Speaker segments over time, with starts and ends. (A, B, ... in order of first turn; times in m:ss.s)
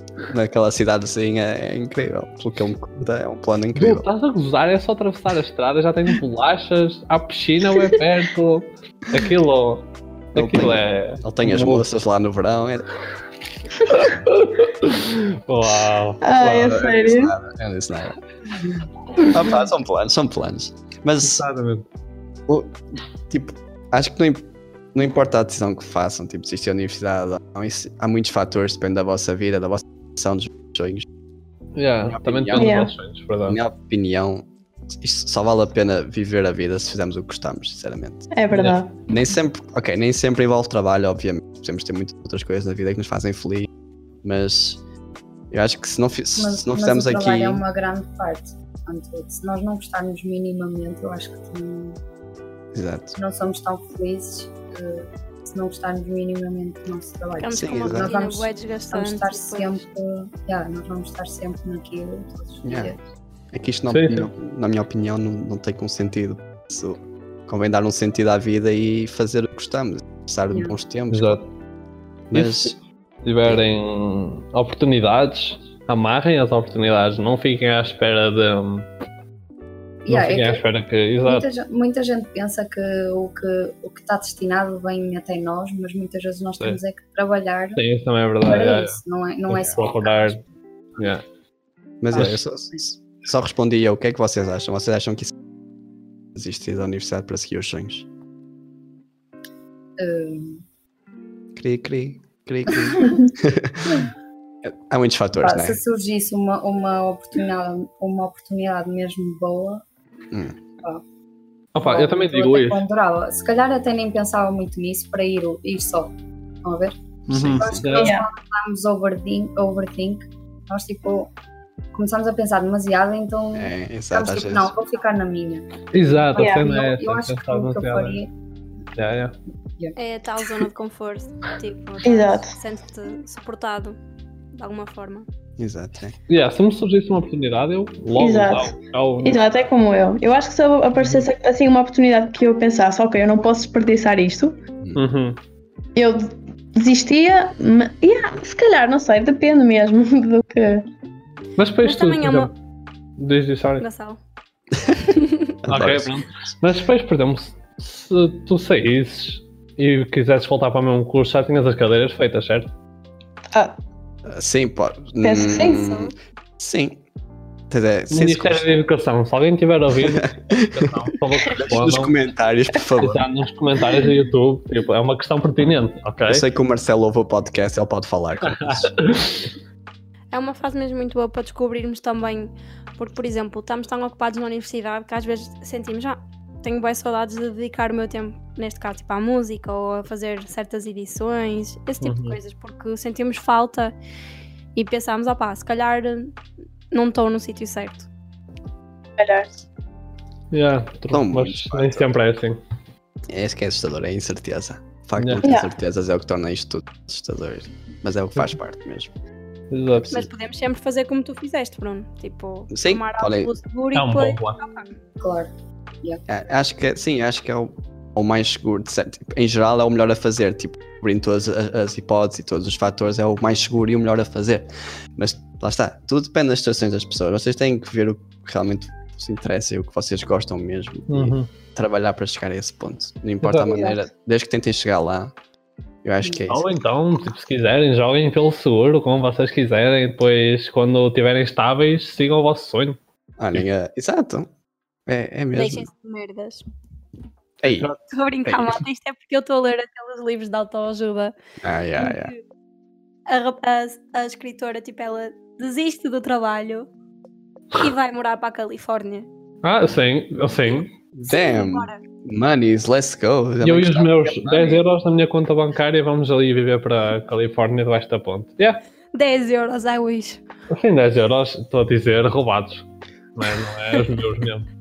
0:00.2-0:04.1 A
0:03.8-0:11.9 B
0:10.4-0:12.9 A
0:13.9-0:16.8 B
0:16.2-0:17.3 C
0:16.4-0:18.2 A
0:19.2-0:21.4 A
0:21.2-0:21.9 B
0:22.5-0:31.1 A
0:31.8-0:33.6 B
0:32.0-0:32.8 A
0:32.6-0:32.9 C
0:33.5-0:38.3 A
0:38.3-0:39.0 C
0:38.5-0:38.8 B
0:39.1-0:43.7 A
0:44.2-0:44.8 A
0:45.5-0:47.6 A
0:46.4-0:52.0 D
0:52.7-0:53.2 A
0:53.1-1:03.0 D
0:57.4-0:59.8 E
0:57.5-0:58.1 A
1:02.6-1:02.9 A
1:03.5-1:11.4 A
1:03.9-1:04.3 B
1:10.5-1:10.8 D
1:11.1-1:11.5 B
1:12.3-1:12.8 A
1:12.3-1:18.9 B
1:20.0-1:20.6 D
1:20.1-1:21.5 B
1:21.2-1:27.8 D
1:27.8-1:30.4 B
1:28.4-1:30.4 D
1:31.0-1:31.2 B
1:32.0-1:35.3 A
1:32.2-1:32.8 D
1:36.3-1:38.1 A
1:40.0-1:40.6 D
1:41.6-1:44.0 A
1:43.0-1:43.3 C
1:44.6-1:45.8 A
1:45.4-1:49.8 D
1:50.3-1:50.6 A
1:51.7-1:52.8 B
1:51.8-2:01.3 D
1:57.3-1:57.9 A
1:57.3-1:58.2 B
1:58.0-1:58.2 C
2:01.9-2:08.3 D
2:03.5-2:04.7 A
2:05.9-2:08.2 B
2:06.4-2:06.7 C
2:09.0-2:09.3 B
2:10.0-2:14.0 E
2:12.0-2:12.5 C
2:14.5-2:15.2 E
2:15.6-2:16.2 A
2:16.3-2:19.4 B
2:18.2-2:24.6 C
2:21.0-2:21.3 B
2:25.0-2:25.4 B
2:26.0-2:30.8 C
2:31.6-2:32.5 B
2:31.8-2:32.5 E
2:33.2-2:33.8 B
2:33.8-2:34.2 E
2:35.0-2:35.6 E
2:35.7-2:36.1 A
2:35.7-2:42.7 B
2:44.2-2:47.0 A
2:45.2-2:46.0 C
2:47.7-2:48.7 A
2:48.1-2:52.2 B
2:50.0-2:50.9 A
2:51.5-2:53.2 A
2:53.0-2:56.4 B
2:56.2-2:59.1 A
2:58.5-2:59.5 B
3:00.3-3:14.0 E
3:12.0-3:12.4 B
3:14.8-3:16.3 E
3:16.9-3:18.1 E
3:19.2-3:19.5 C
3:20.5-3:22.6 B
3:21.1-3:22.2 A
3:23.3-3:29.1 A
3:25.2-3:25.5 B
3:25.4-3:25.7 C
3:29.7-3:30.2 B
3:30.0-3:30.2 A
3:30.1-3:34.9 E
3:32.7-3:33.5 A
3:33.9-3:34.6 B
3:35.2-3:35.5 D
3:36.3-3:55.3 A
3:51.1-3:51.5 B
3:53.4-3:53.7 B
3:53.6-3:54.0 D
3:56.0-3:56.7 A
3:56.5-4:03.0 B
4:03.4-4:04.5 A
4:05.1-4:05.9 A
4:05.5-4:06.6 E
4:07.6-4:07.9 A
4:07.7-4:08.0 B
4:08.1-4:11.3 E
4:08.5-4:08.8 A
4:11.6-4:12.3 A
4:12.0-4:12.4 E
4:13.3-4:16.9 E
4:17.7-4:19.3 E
4:19.6-4:20.9 B
4:21.1-4:24.8 A
4:21.3-4:22.0 E
4:23.6-4:28.8 B
4:29.1-4:30.4 E
4:30.7-4:34.7 B